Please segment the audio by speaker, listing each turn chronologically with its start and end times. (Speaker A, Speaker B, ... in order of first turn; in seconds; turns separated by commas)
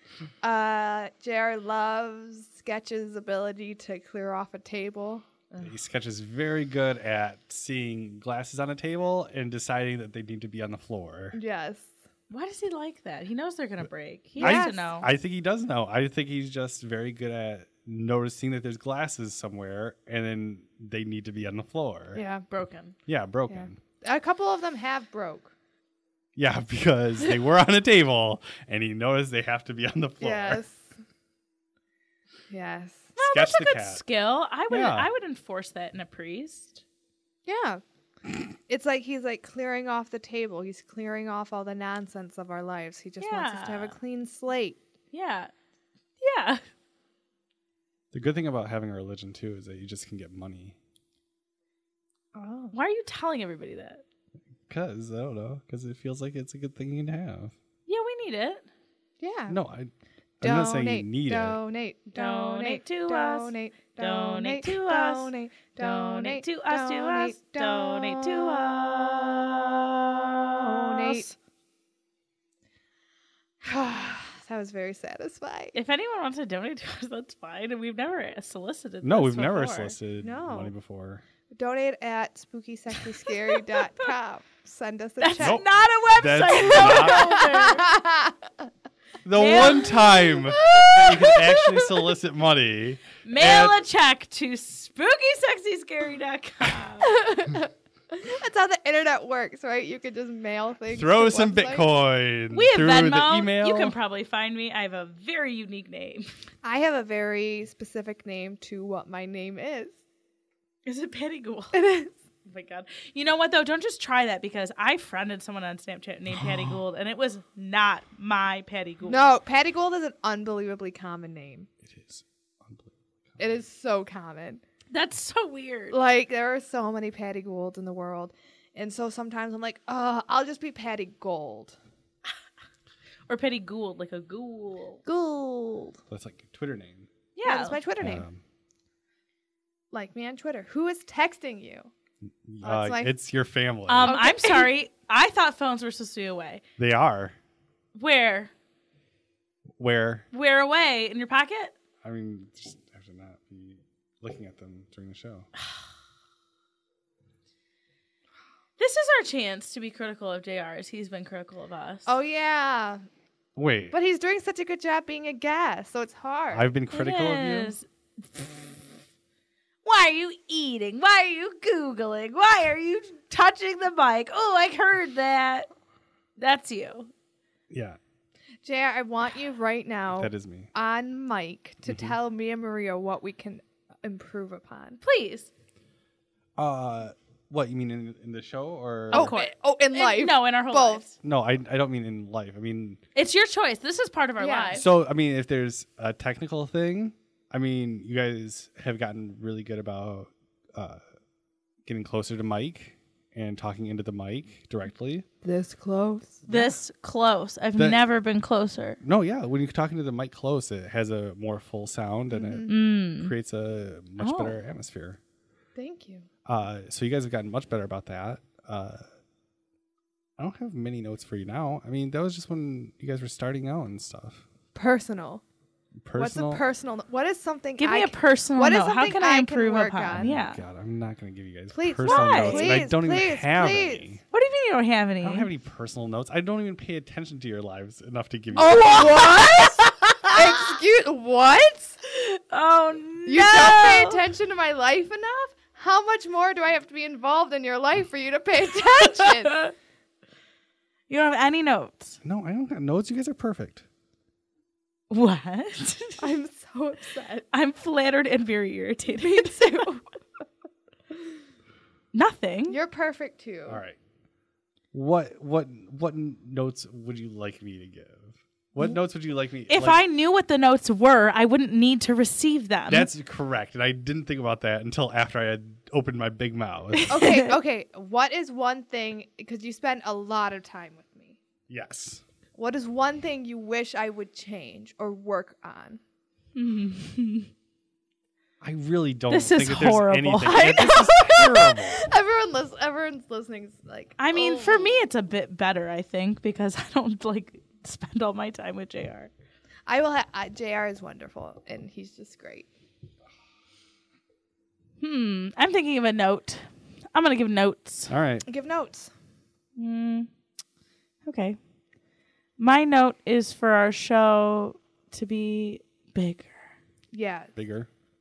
Speaker A: 0.4-5.2, Speaker B: 5.6-11.4, Speaker A: 11.3-11.9, Speaker C: 12.3-15.1, Speaker A: 14.4-14.9, Speaker B: 14.4-22.2, Speaker A: 22.1-22.4, Speaker C: 22.5-22.9, Speaker B: 23.1-23.8, Speaker A: 23.5-25.5, Speaker B: 26.3-30.6, Speaker A: 30.2-30.9, Speaker A: 32.5-33.1, Speaker C: 33.1-36.8, Speaker B: 33.2-34.0, Speaker B: 34.7-35.1, Speaker A: 37.5-37.8, Speaker A: 38.7-44.8, Speaker C: 43.2-43.9, Speaker C: 45.1-45.5, Speaker C: 46.2-46.6, Speaker B: 48.1-50.8, Speaker A: 52.3-52.7, Speaker C: 52.7-54.0, Speaker B: 54.7-57.5, Speaker C: 57.9-58.7, Speaker A: 59.2-59.6, Speaker B: 59.5-61.6, Speaker A: 60.4-68.7, Speaker C: 62.1-71.3, Speaker A: 70.7-71.3, Speaker A: 73.6-75.7, Speaker C: 75.7-80.0, Speaker B: 79.0-81.2, Speaker A: 80.2-80.7, Speaker A: 81.5-85.6, Speaker C: 83.3-83.6, Speaker C: 85.2-87.9, Speaker B: 85.4-87.4, Speaker A: 86.7-88.4, Speaker B: 89.2-93.8, Speaker C: 89.3-90.1, Speaker A: 89.6-91.9, Speaker C: 93.2-97.2, Speaker A: 97.0-102.0, Speaker B: 100.9-104.0, Speaker C: 102.5-106.3, Speaker A: 106.6-110.0, Speaker C: 110.8-111.8, Speaker A: 111.7-112.1, Speaker C: 112.4-119.3, Speaker B: 116.3-116.8, Speaker A: 119.1-121.7, Speaker B: 121.8-123.6, Speaker A: 123.4-124.6, Speaker C: 124.9-126.0, Speaker A: 125.9-131.8, Speaker C: 133.3-135.0, Speaker A: 135.1-136.0, Speaker B: 136.1-137.1, Speaker C: 137.3-137.8, Speaker A: 137.4-138.2, Speaker B: 138.0-138.4, Speaker A: 139.9-141.9, Speaker B: 142.4-144.2, Speaker A: 142.6-143.1, Speaker C: 143.9-146.6, Speaker A: 144.0-144.7, Speaker B: 146.8-147.3, Speaker C: 147.9-148.5, Speaker B: 149.8-150.2, Speaker C: 150.3-151.7, Speaker B: 152.0-155.5, Speaker C: 158.8-162.1, Speaker A: 162.1-163.0, Speaker B: 163.6-163.9, Speaker A: 163.9-166.7, Speaker B: 166.5-167.7, Speaker C: 166.9-168.7, Speaker C: 169.8-175.7, Speaker C: 176.4-177.1, Speaker B: 177.7-178.0, Speaker A: 178.6-185.0, Speaker B: 180.1-180.7, Speaker B: 181.9-182.1, Speaker C: 185.0-185.5, Speaker B: 186.6-189.3, Speaker A: 189.1-191.1, Speaker C: 189.1-191.1, Speaker B: 191.2-193.0, Speaker C: 193.1-194.8, Speaker A: 194.4-194.8, Speaker B: 194.7-201.0, Speaker B: 201.8-205.2, Speaker A: 205.4-206.7, Speaker C: 206.5-209.0, Speaker B: 207.8-208.0, Speaker B: 209.0-215.2, Speaker A: 212.3-212.7, Speaker C: 212.7-213.3, Speaker C: 214.2-214.6, Speaker A: 215.7-216.3, Speaker B: 216.4-219.1, Speaker B: 220.4-224.4, Speaker A: 224.7-225.4, Speaker B: 226.0-226.6, Speaker A: 226.2-230.3, Speaker C: 227.8-230.6, Speaker B: 230.2-234.2, Speaker A: 231.7-234.1, Speaker C: 232.0-232.8, Speaker C: 234.3-235.5, Speaker B: 235.2-239.3, Speaker C: 238.5-240.4, Speaker A: 238.5-242.0, Speaker C: 242.1-244.2, Speaker A: 243.2-249.6, Speaker C: 249.0-249.7, Speaker C: 251.1-252.2, Speaker B: 252.2-253.8, Speaker C: 255.1-256.2, Speaker A: 256.2-257.4, Speaker C: 257.5-259.9, Speaker A: 259.2-260.0, Speaker C: 262.1-262.8, Speaker A: 262.7-263.8, Speaker B: 263.6-264.0, Speaker B: 264.9-270.0, Speaker C: 269.7-273.1, Speaker B: 272.9-277.1, Speaker C: 276.9-277.5, Speaker A: 277.1-281.4, Speaker B: 281.7-282.2, Speaker A: 282.6-286.0, Speaker C: 286.6-287.5, Speaker B: 288.6-292.0, Speaker C: 289.3-291.8, Speaker A: 291.4-295.0, Speaker C: 294.2-299.3, Speaker A: 299.9-302.7, Speaker C: 305.0-308.1, Speaker B: 308.1-308.4, Speaker A: 308.4-309.1, Speaker C: 309.8-310.3, Speaker C: 311.2-311.6, Speaker C: 312.6-316.7, Speaker A: 317.1-317.5, Speaker B: 317.5-317.9